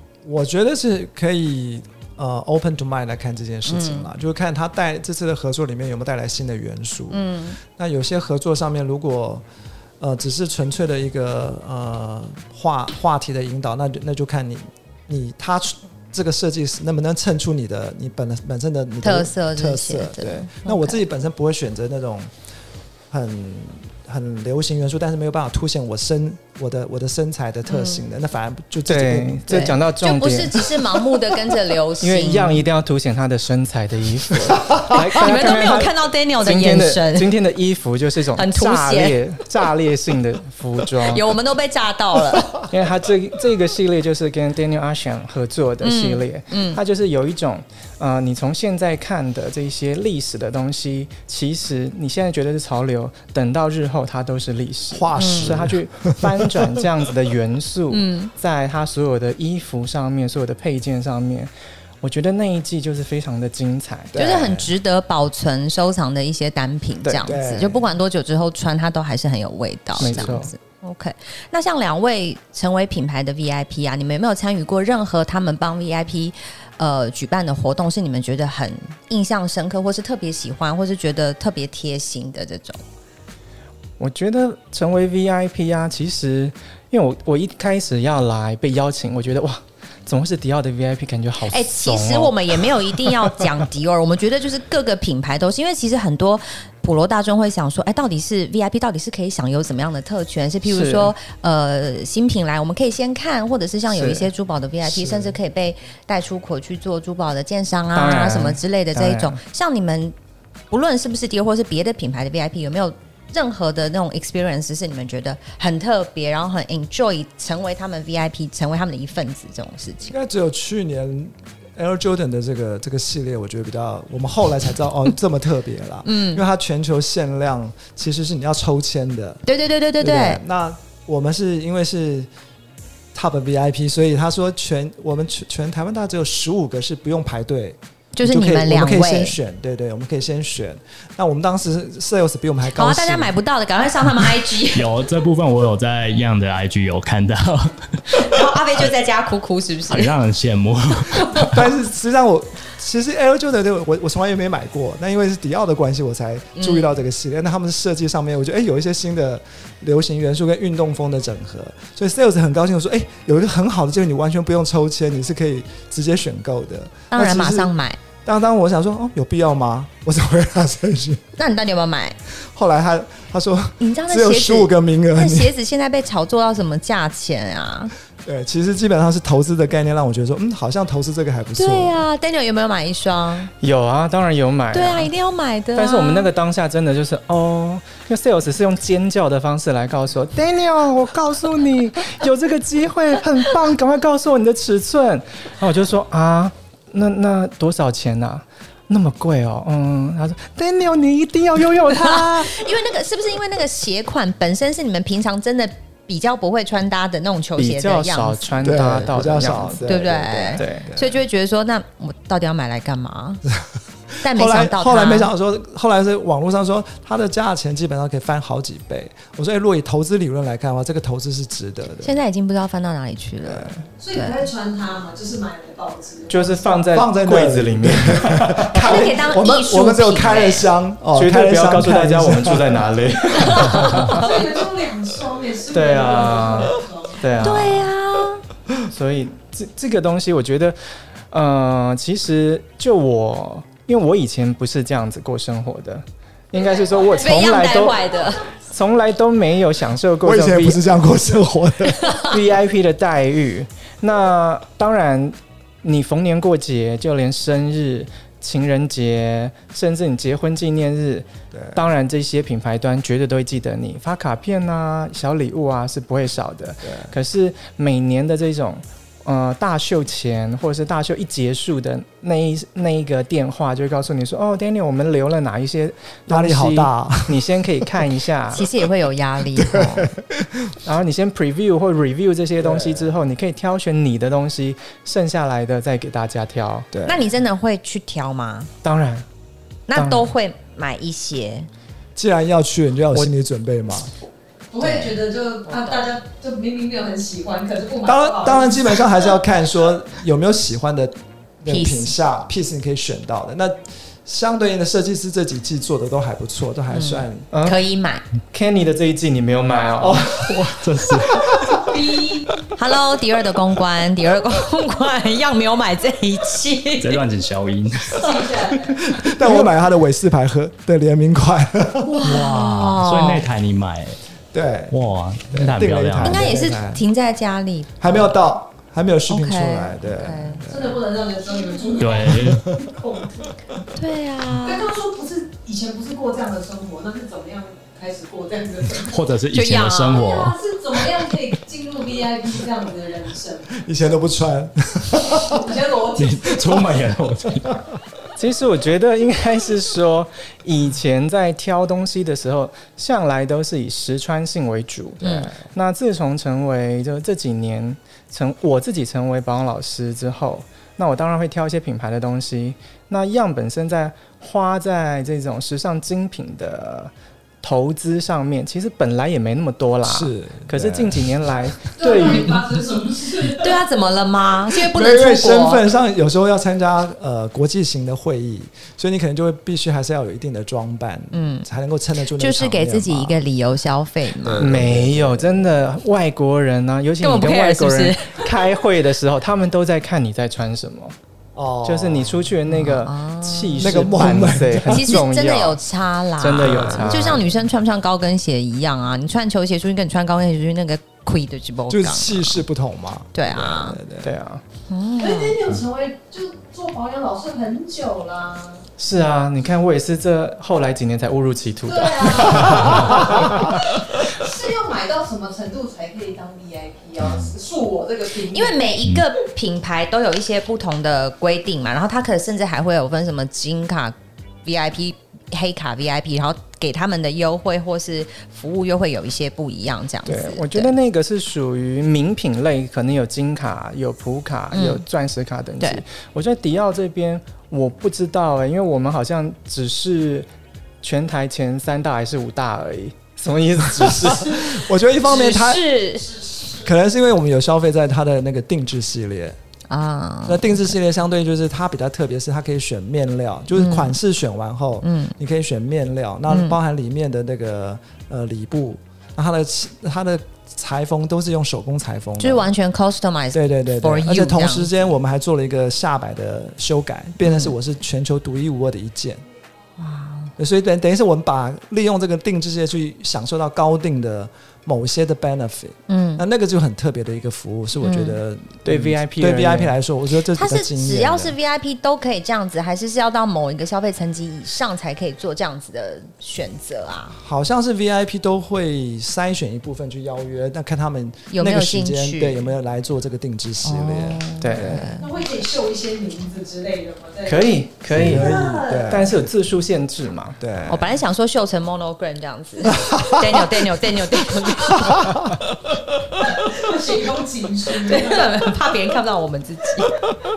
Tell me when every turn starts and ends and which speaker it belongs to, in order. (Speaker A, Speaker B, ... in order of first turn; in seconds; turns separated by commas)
Speaker A: 0.2-9.4, Speaker B: 3.7-4.1, Speaker B: 7.1-7.6, Speaker A: 10.0-22.3, Speaker B: 19.0-21.0, Speaker A: 23.1-29.8, Speaker B: 27.7-28.0, Speaker C: 28.9-30.8, Speaker B: 29.5-32.6, Speaker C: 32.0-41.2, Speaker A: 34.7-35.0, Speaker B: 35.1-37.3, Speaker B: 38.4-39.2, Speaker B: 41.1-42.6, Speaker C: 42.7-64.1, Speaker B: 45.8-46.8, Speaker A: 54.9-56.8, Speaker B: 55.1-55.6, Speaker B: 57.9-58.3, Speaker A: 64.1-64.7, Speaker B: 64.2-82.8, Speaker C: 67.0-67.3, Speaker A: 67.2-67.9, Speaker C: 70.0-70.5, Speaker A: 70.0-70.4, Speaker C: 84.0-93.5, Speaker B: 91.5-110.2, Speaker C: 100.6-101.1, Speaker C: 103.9-104.3, Speaker C: 107.9-109.4, Speaker B: 110.7-120.1, Speaker A: 120.1-129.4, Speaker B: 126.1-126.4, Speaker B: 129.4-130.4, Speaker A: 130.0-132.3, Speaker A: 133.1-143.3, Speaker B: 138.2-139.4, Speaker B: 142.7-144.9, Speaker D: 144.7-148.4, Speaker B: 148.1-150.1, Speaker D: 149.9-151.7, Speaker B: 151.0-151.5, Speaker A: 151.5-167.7, Speaker B: 156.6-156.9, Speaker B: 167.1-168.0, Speaker A: 168.2-171.2, Speaker B: 171.4-172.2, Speaker A: 172.3-175.5, Speaker B: 173.8-177.9, Speaker A: 178.2-182.1, Speaker B: 181.6-183.5, Speaker C: 183.6-185.1, Speaker B: 184.7-186.3, Speaker C: 185.8-202.6, Speaker B: 201.9-208.6, Speaker C: 207.6-209.8, Speaker A: 208.6-211.2, Speaker B: 209.6-213.4, Speaker C: 210.6-210.9, Speaker A: 214.2-222.2, Speaker B: 214.2-215.3, Speaker B: 222.0-224.4, Speaker A: 223.4-223.8, Speaker E: 224.0-226.6, Speaker C: 226.3-228.8, Speaker A: 226.9-232.9, Speaker B: 228.7-230.7, Speaker C: 231.2-234.2, Speaker B: 233.4-234.4, Speaker E: 233.9-237.2, Speaker C: 235.7-237.9, Speaker B: 237.4-238.4, Speaker C: 238.8-240.8, Speaker C: 241.3-248.0, Speaker E: 246.6-247.4, Speaker B: 247.2-248.5, Speaker C: 248.7-251.0, Speaker A: 250.2-252.1, Speaker B: 251.9-252.3, Speaker C: 252.2-278.6, Speaker A: 261.5-261.8, Speaker A: 266.9-267.1, Speaker A: 276.3-277.6, Speaker B: 278.5-280.1, Speaker A: 279.6-280.8, Speaker C: 280.8-286.9, Speaker A: 282.6-283.1, Speaker A: 286.9-287.2, Speaker B: 287.1-288.7, Speaker C: 288.8-289.3, Speaker B: 289.9-291.7, Speaker C: 289.9-290.3, Speaker A: 292.2-294.1, Speaker E: 294.7-299.3, Speaker B: 294.8-295.2, Speaker A: 298.0-307.5, Speaker B: 301.7-302.1, Speaker B: 306.9-308.2, Speaker C: 307.5-307.8, Speaker C: 308.5-310.3, Speaker A: 310.0-311.9, Speaker D: 310.4-311.8, Speaker E: 311.7-312.7, Speaker B: 312.7-317.2, Speaker D: 317.0-318.4, Speaker E: 318.1-319.2, Speaker A: 319.0-322.4, Speaker B: 322.1-323.4, Speaker D: 322.2-324.2, Speaker A: 324.5-324.9, Speaker D: 324.9-326.5, Speaker A: 325.5-327.0, Speaker B: 326.2-328.3, Speaker A: 328.0-331.0, Speaker B: 329.3-330.6, Speaker E: 330.7-333.5, Speaker D: 332.0-332.6, Speaker A: 332.3-332.9, Speaker B: 333.9-334.9, Speaker E: 334.6-339.2, Speaker D: 339.0-341.0, Speaker B: 339.5-340.3, Speaker E: 340.1-343.8, Speaker A: 343.7-345.6, Speaker E: 345.2-346.9, Speaker D: 346.2-347.8, Speaker C: 348.4-372.7, Speaker B: 355.2-355.5, Speaker A: 370.0-371.5, Speaker E: 371.9-373.8, Speaker B: 373.6-375.8, Speaker A: 374.7-383.4, Speaker B: 381.3-381.7, Speaker B: 382.4-384.7, Speaker A: 384.4-385.7, Speaker C: 384.6-391.2, Speaker B: 387.2-388.6, Speaker A: 391.6-392.5, Speaker C: 391.9-395.8, Speaker B: 392.7-394.1, Speaker A: 393.8-395.2, Speaker B: 394.9-402.6, Speaker C: 396.4-397.4, Speaker A: 396.6-397.5, Speaker A: 401.9-404.3, Speaker B: 403.3-404.0, Speaker C: 404.2-404.6, Speaker B: 404.9-405.6, Speaker E: 405.2-408.9, Speaker C: 409.0-413.7, Speaker E: 411.9-418.9, Speaker A: 412.5-413.4, Speaker D: 417.2-417.5, Speaker B: 418.5-430.9, Speaker C: 430.3-440.5, Speaker B: 434.7-435.0, Speaker C: 441.0-444.8, Speaker A: 443.9-445.8, Speaker B: 445.2-446.6, Speaker E: 446.4-446.7, Speaker A: 446.7-449.6, Speaker B: 449.9-450.9, Speaker A: 450.5-462.7, Speaker B: 453.7-454.2, Speaker B: 455.0-455.3, Speaker B: 456.5-456.8, Speaker B: 462.4-464.9, Speaker A: 463.5-469.4, Speaker B: 467.4-467.7, Speaker B: 470.0-470.5, Speaker A: 470.6-481.6, Speaker B: 476.1-476.4, Speaker B: 478.0-478.4, Speaker C: 478.8-479.9, Speaker B: 480.5-487.4, Speaker A: 487.4-495.1, Speaker B: 491.5-492.7, Speaker B: 493.8-495.3, Speaker C: 494.6-495.1, Speaker E: 495.2-499.2, Speaker C: 497.5-500.6, Speaker A: 498.1-499.5, Speaker A: 500.6-501.2, Speaker B: 500.9-505.4, Speaker A: 502.9-503.8, Speaker A: 505.0-506.0, Speaker E: 506.4-508.8, Speaker B: 508.0-510.2